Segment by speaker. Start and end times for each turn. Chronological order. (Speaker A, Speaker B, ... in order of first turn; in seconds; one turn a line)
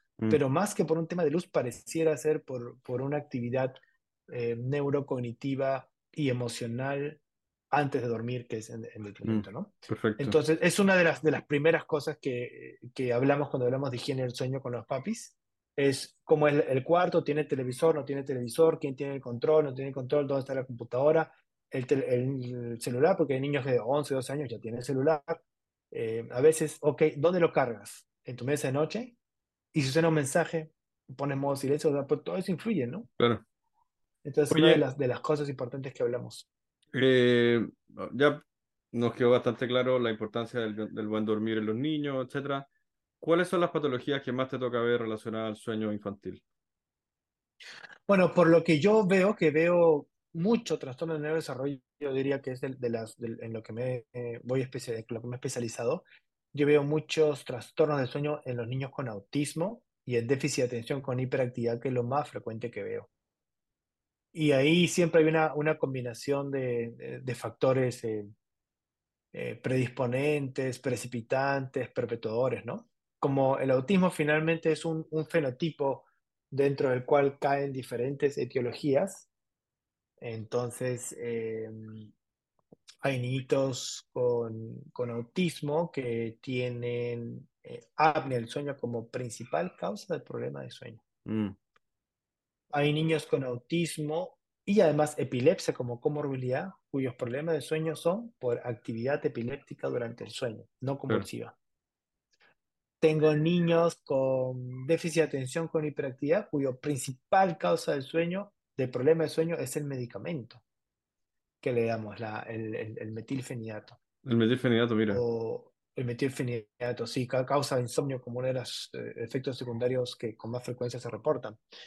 Speaker A: 0.3-29.2
Speaker B: 9.2-10.4
Speaker A: 29.7-33.1
Speaker B: 33.2-33.4
Speaker A: 34.2-36.5
Speaker B: 34.5-34.8
Speaker B: 36.9-42.7
Speaker B: 43.2-46.4
Speaker A: 48.1-63.1
Speaker A: 64.3-68.3
Speaker A: 69.3-79.3
Speaker A: 80.2-82.1
Speaker A: 83.0-91.0
Speaker B: 91.3-91.6
Speaker A: 92.7-101.6
Speaker A: 103.0-110.6
Speaker A: 111.6-114.0
Speaker B: 114.2-115.2
Speaker A: 115.1-121.6